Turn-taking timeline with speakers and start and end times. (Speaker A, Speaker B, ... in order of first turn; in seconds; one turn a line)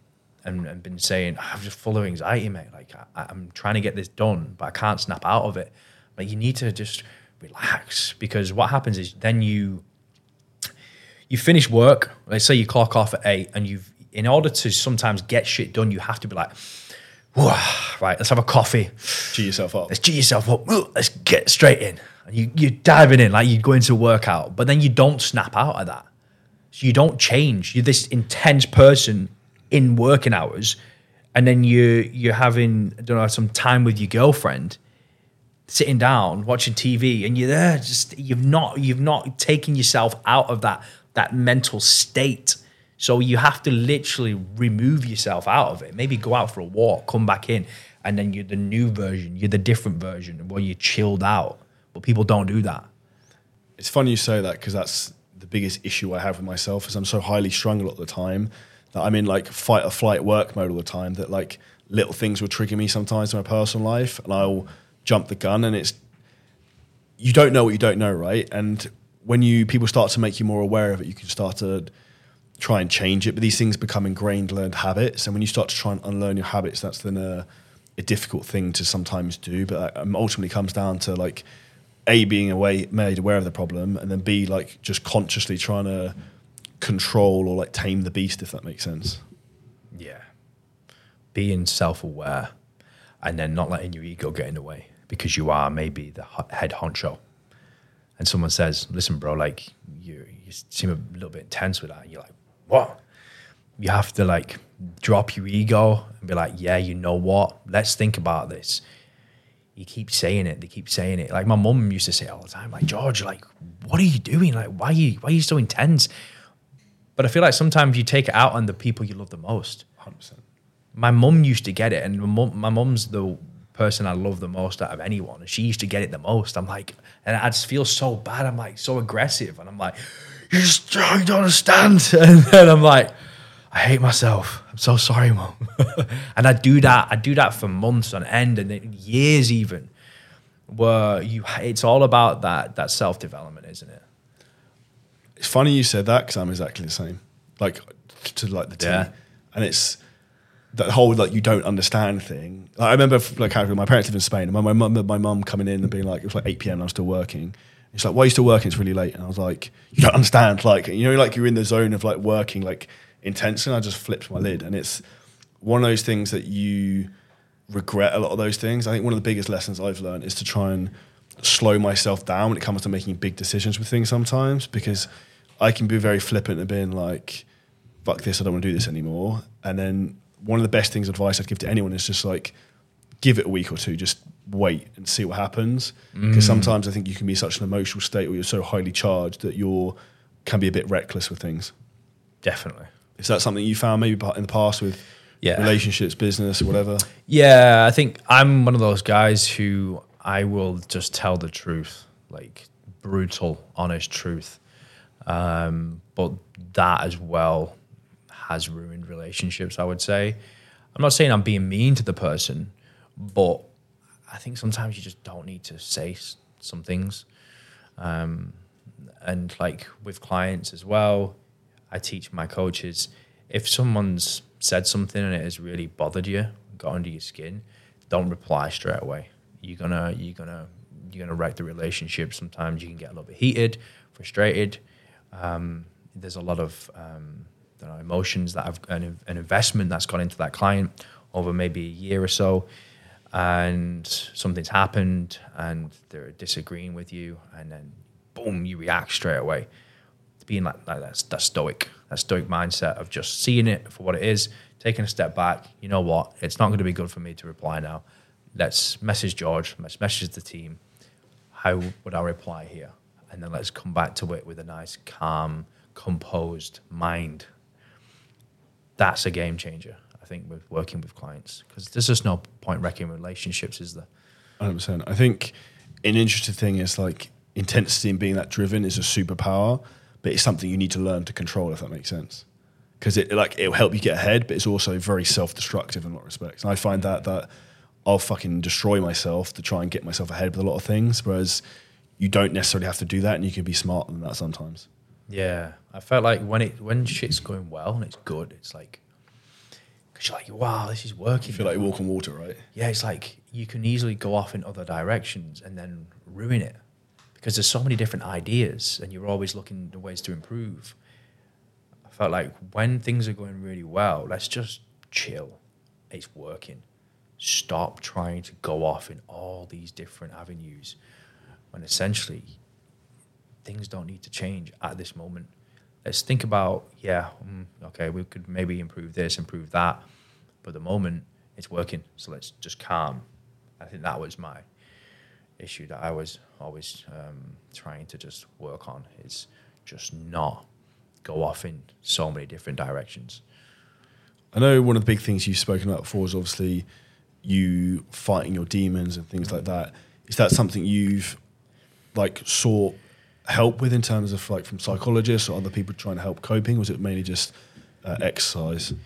Speaker A: 0.4-9.8
Speaker A: 11.3-26.1
Speaker B: 19.3-19.9
Speaker A: 26.7-30.8
Speaker A: 31.4-34.8
Speaker A: 35.7-52.9
Speaker B: 53.8-66.0
Speaker B: 67.2-71.9
Speaker B: 72.6-77.5
Speaker B: 78.0-81.4
Speaker B: 82.1-86.1
Speaker B: 86.8-89.2
Speaker A: 89.9-90.3
Speaker A: 91.3-92.5
Speaker A: 93.2-97.2
Speaker A: 98.2-103.0
Speaker A: 103.8-108.8
Speaker A: 109.8-116.1
Speaker A: 117.2-119.8
Speaker B: 120.0-120.4
Speaker A: 120.9-133.1
Speaker A: 133.7-139.9
Speaker A: 140.7-144.0
Speaker B: 145.4-150.0
Speaker A: 148.8-149.1
Speaker B: 150.7-165.0
Speaker B: 165.6-167.1
Speaker B: 167.7-177.4
Speaker B: 178.0-182.5
Speaker B: 183.2-191.7
Speaker A: 186.1-186.8
Speaker A: 192.4-192.9
Speaker B: 193.2-195.0
Speaker A: 195.4-195.7
Speaker B: 195.6-197.1
Speaker A: 197.2-204.6
Speaker A: 205.2-207.8
Speaker A: 208.3-210.4
Speaker A: 210.9-213.7
Speaker A: 214.3-217.3
Speaker A: 218.0-221.4
Speaker A: 221.9-242.7
Speaker A: 243.3-249.7
Speaker A: 250.4-258.0
Speaker A: 258.6-260.8
Speaker A: 261.5-267.4
Speaker A: 269.0-274.1
Speaker B: 274.6-275.5
Speaker B: 276.0-282.4
Speaker B: 283.0-287.5
Speaker A: 286.9-287.2
Speaker B: 288.1-291.6
Speaker B: 292.2-294.9
Speaker A: 295.3-299.0
Speaker A: 300.1-301.9
Speaker B: 301.5-302.6
Speaker A: 302.7-306.8
Speaker A: 307.4-310.9
Speaker A: 312.1-316.8
Speaker A: 317.4-321.0
Speaker A: 321.7-322.6
Speaker A: 323.6-325.5
Speaker A: 326.0-330.0
Speaker A: 330.6-333.2
Speaker A: 333.8-334.6
Speaker A: 335.6-340.7
Speaker A: 341.2-343.4
Speaker B: 344.5-346.9
Speaker B: 347.4-351.4
Speaker B: 352.1-358.9